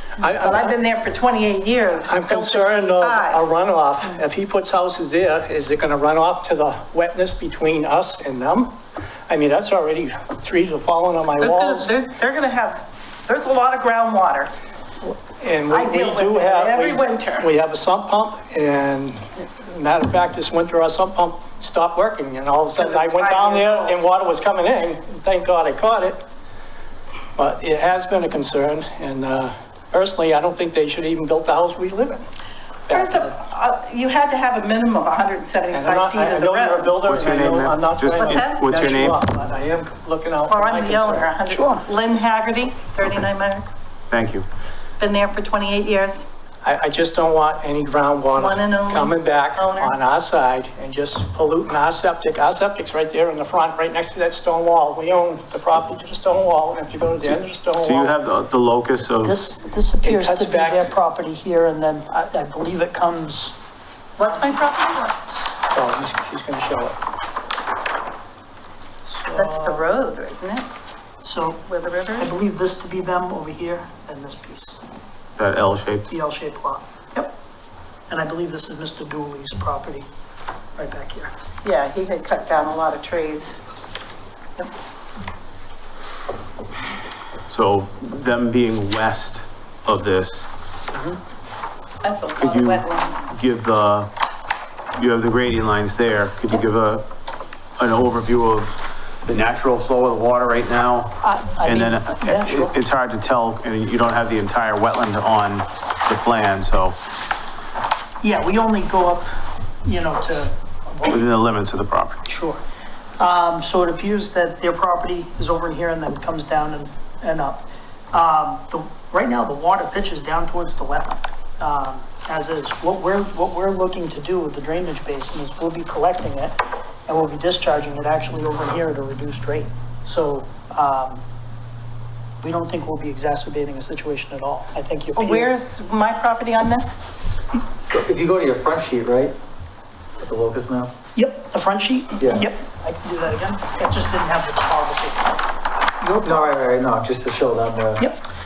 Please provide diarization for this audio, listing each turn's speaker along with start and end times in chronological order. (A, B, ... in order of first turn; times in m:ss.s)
0:00.2-0:00.8 A
0:00.3-0:03.4 B
0:02.1-0:08.8 A
0:09.3-0:11.9 A
0:11.4-0:14.5 B
0:15.0-0:26.2 A
0:15.7-0:17.5 B
0:22.8-0:24.0 B
0:27.4-0:32.3 A
0:32.9-0:33.3 A
0:32.9-0:37.0 B
0:35.7-0:41.3 A
0:37.0-0:39.2 C
0:38.2-0:38.6 B
0:40.5-0:43.7 B
0:41.5-0:41.8 D
0:44.1-0:44.5 C
0:45.0-0:46.2 B
0:46.6-0:58.2 A
0:48.4-0:50.0 B
0:57.8-0:59.4 C
0:59.2-1:03.6 D
1:00.0-1:00.9 A
1:04.2-1:05.3 B
1:05.7-1:07.0 A
1:09.4-1:10.7 B
1:09.4-1:09.8 D
1:11.2-1:14.8 D
1:11.6-1:12.3 B
1:15.4-1:16.1 C
1:16.1-1:17.3 D
1:18.1-1:20.1 D
1:20.8-1:21.3 D
1:21.6-1:23.6 B
1:27.5-1:30.5 C
1:32.0-1:33.2 B
1:32.4-1:34.1 C
1:35.0-1:37.0 C
1:37.8-1:47.0 C
1:41.2-1:42.8 D
1:48.2-1:51.2 D
1:51.0-1:52.2 C
1:52.3-1:52.6 D
1:53.2-2:11.2 D
2:12.4-2:15.5 D
2:15.2-2:16.9 B
2:17.9-2:19.4 E
2:20.2-2:20.9 E
2:21.2-2:25.4 D
2:22.2-2:22.5 E
2:26.0-2:26.6 D
2:26.2-2:28.1 E